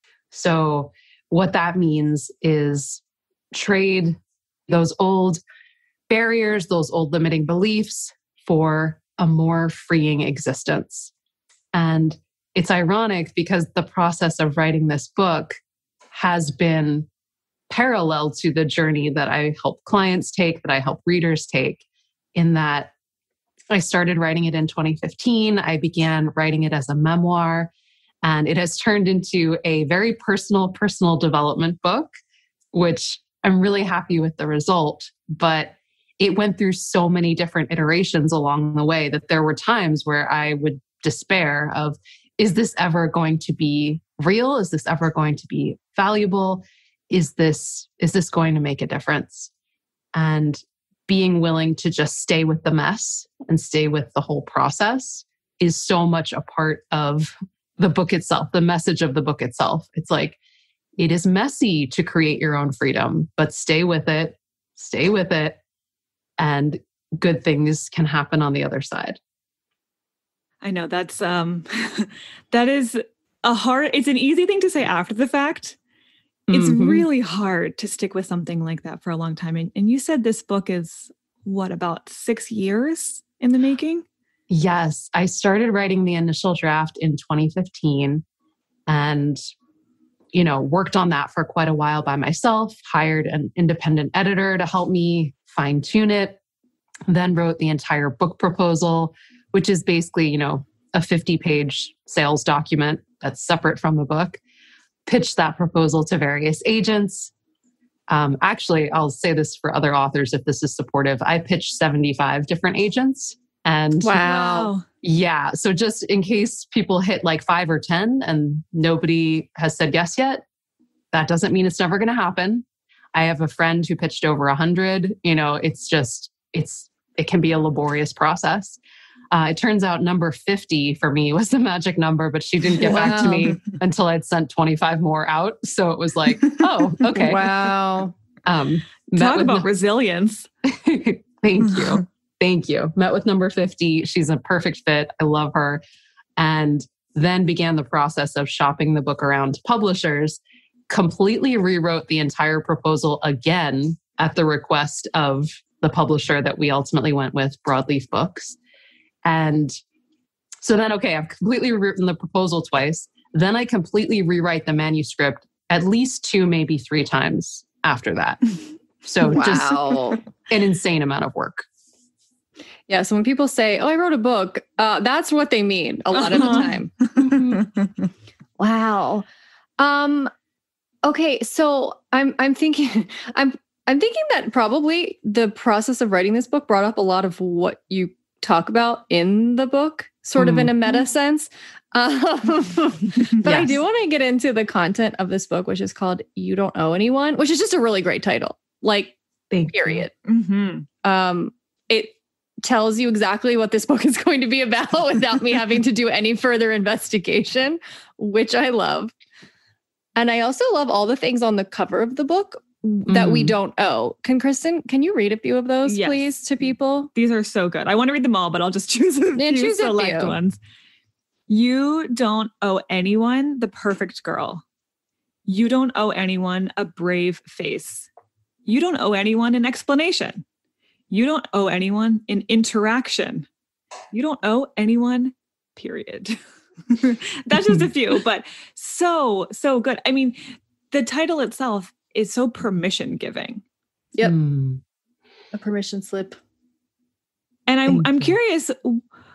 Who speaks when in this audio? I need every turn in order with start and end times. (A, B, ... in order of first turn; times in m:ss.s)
0:00.3-0:05.4 A
0:06.1-0:11.1 A
0:11.7-0:15.5 A
0:16.1-0:17.1 A
0:17.7-0:21.8 A
0:22.3-0:22.9 A
0:23.7-0:27.7 A
0:28.2-0:32.1 A
0:32.7-0:49.5 A
0:50.1-1:00.4 A
1:01.0-1:05.6 A
1:06.4-1:09.2 A
1:10.6-1:15.8 B
1:16.5-1:17.0 A
1:16.5-1:24.0 B
1:24.5-1:28.2 A
1:28.9-1:29.4 A
1:30.3-1:36.4 A
1:37.1-1:44.4 A
1:45.0-1:47.3 A
1:48.1-1:54.3 A
1:54.0-1:54.7 C
1:54.2-1:54.8 B
1:55.0-2:00.4 A
2:01.1-2:08.8 A
2:09.3-2:17.7 A
2:12.8-2:13.6 C
2:17.1-2:18.1 C
2:18.4-2:19.7 A
2:19.2-2:20.5 B
2:20.6-2:25.8 A
2:26.4-2:38.6 A
2:39.2-2:39.7 A
2:40.6-2:48.4 A
2:49.0-2:51.6 A
2:49.2-2:50.2 C
2:52.9-2:57.2 C
2:56.3-2:56.7 B
2:57.2-2:57.6 A
2:58.6-2:59.2 C
2:59.8-3:00.3 C
3:01.0-3:19.2 C
3:10.4-3:10.7 A
3:13.4-3:13.8 A
3:19.5-3:20.1 A
3:19.7-3:20.1 C
3:20.2-3:20.9 B
3:21.0-3:29.1 C
3:30.2-3:37.1 C
3:33.1-3:33.5 A
3:35.8-3:36.3 B
3:37.1-3:40.6 B
3:39.4-3:40.3 C
3:41.5-3:44.6 B
3:45.5-3:48.1 B
3:48.6-3:50.4 B
3:51.1-3:53.5 B
3:54.1-4:00.4 B
3:57.6-3:57.8 A
4:00.9-4:03.6 B
4:04.2-4:04.8 A
4:05.5-4:06.4 C
4:07.7-4:09.0 B
4:07.9-4:08.3 A